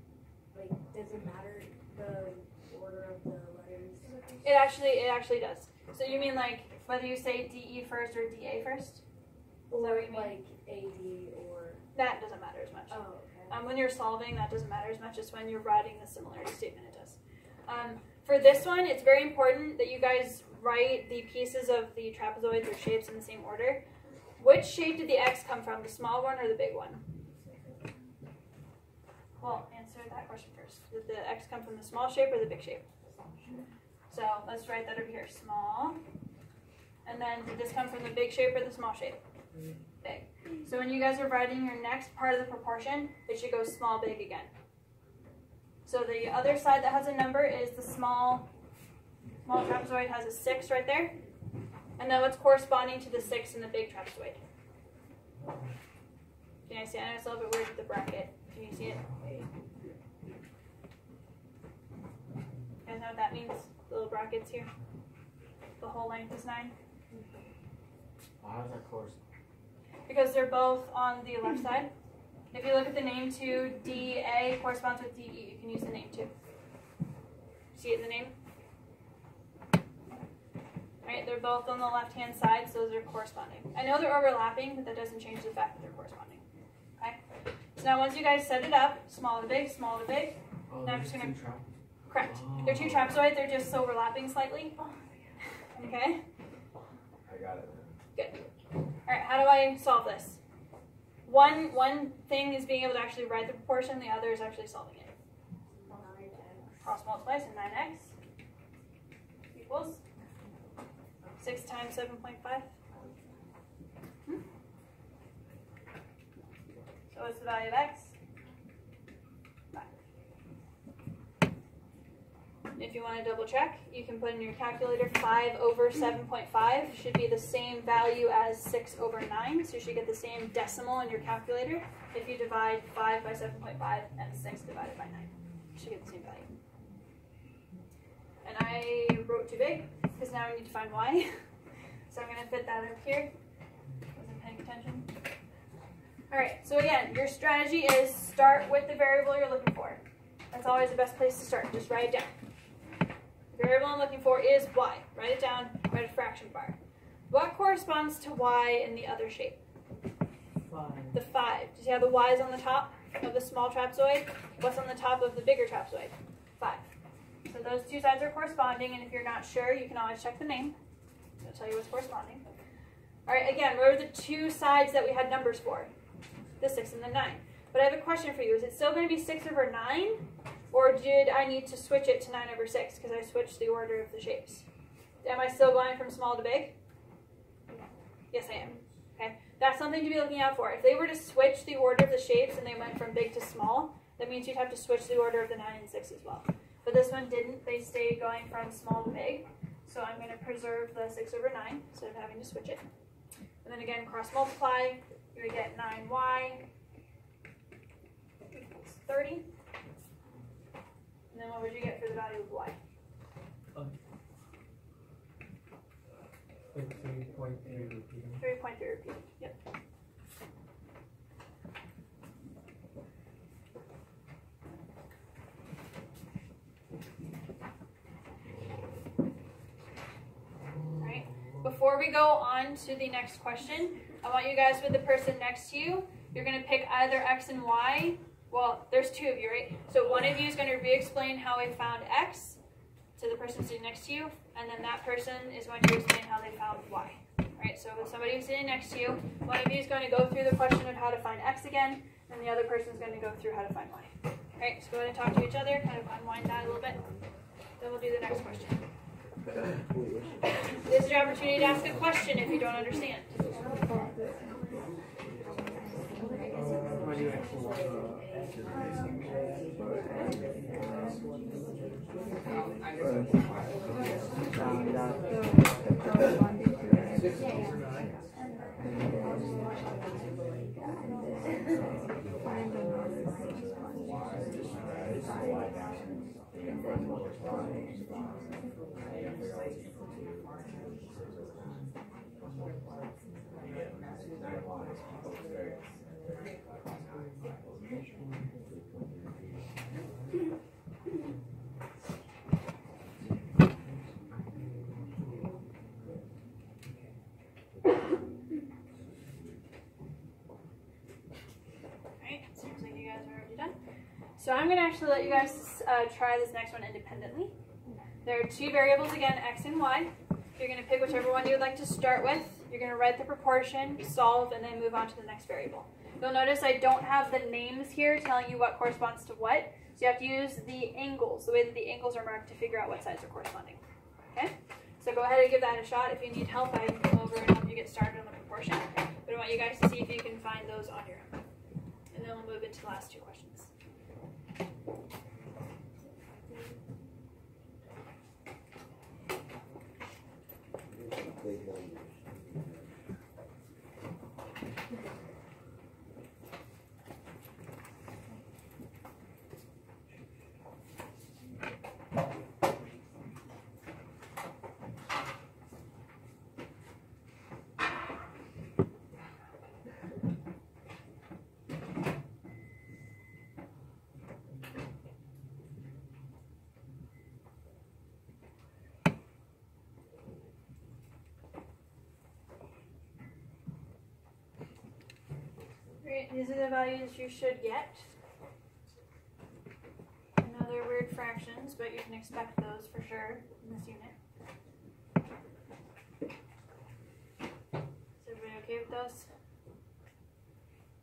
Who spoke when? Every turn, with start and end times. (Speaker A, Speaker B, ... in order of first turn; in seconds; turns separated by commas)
Speaker A: 0.5-4.5, Speaker B: 4.4-9.0, Speaker A: 9.7-11.8, Speaker B: 9.8-10.4, Speaker B: 11.9-23.9, Speaker A: 12.9-13.6, Speaker B: 24.4-27.1, Speaker B: 29.4-33.4, Speaker B: 34.1-36.0, Speaker B: 37.0-39.2, Speaker B: 40.0-44.5, Speaker B: 45.9-48.5, Speaker B: 49.4-51.2, Speaker B: 52.0-54.4, Speaker B: 56.7-59.4, Speaker B: 62.9-64.7, Speaker B: 65.8-66.7, Speaker C: 68.4-69.2, Speaker B: 70.1-71.9, Speaker B: 72.5-76.3, Speaker B: 77.8-78.3, Speaker B: 81.0-86.4, Speaker B: 87.8-91.4, Speaker C: 90.7-91.7, Speaker B: 92.1-94.8, Speaker C: 92.3-93.1, Speaker B: 95.8-96.2, Speaker C: 97.3-98.0, Speaker B: 98.2-98.5, Speaker B: 99.1-100.4, Speaker B: 101.2-105.1, Speaker A: 105.8-106.9, Speaker B: 106.8-108.1, Speaker B: 109.5-110.0, Speaker B: 111.4-112.7, Speaker A: 112.9-113.3, Speaker B: 117.1-118.2, Speaker B: 122.8-136.5, Speaker B: 138.4-141.3, Speaker B: 142.1-143.3, Speaker B: 144.1-145.1, Speaker B: 146.3-152.3, Speaker B: 153.5-156.8, Speaker B: 157.3-159.6, Speaker D: 160.7-161.2, Speaker B: 161.1-166.8, Speaker B: 167.4-170.8, Speaker B: 171.4-172.4, Speaker B: 173.3-175.9, Speaker B: 176.6-184.7, Speaker B: 185.2-186.8, Speaker B: 188.3-202.8, Speaker B: 203.6-206.6, Speaker B: 208.5-209.5, Speaker B: 211.3-212.8, Speaker D: 216.7-218.4, Speaker B: 218.4-219.6, Speaker B: 231.0-242.6, Speaker B: 243.2-257.0, Speaker B: 257.8-258.8, Speaker B: 260.9-263.4, Speaker D: 267.0-267.9, Speaker C: 284.7-291.9, Speaker C: 293.6-298.0, Speaker C: 298.6-300.0, Speaker D: 304.5-305.6, Speaker C: 309.2-309.5, Speaker B: 312.2-313.8, Speaker B: 314.4-317.5, Speaker B: 318.2-341.4, Speaker B: 342.1-343.7, Speaker C: 350.9-353.0, Speaker B: 386.0-388.1, Speaker B: 390.4-394.1, Speaker B: 398.2-399.3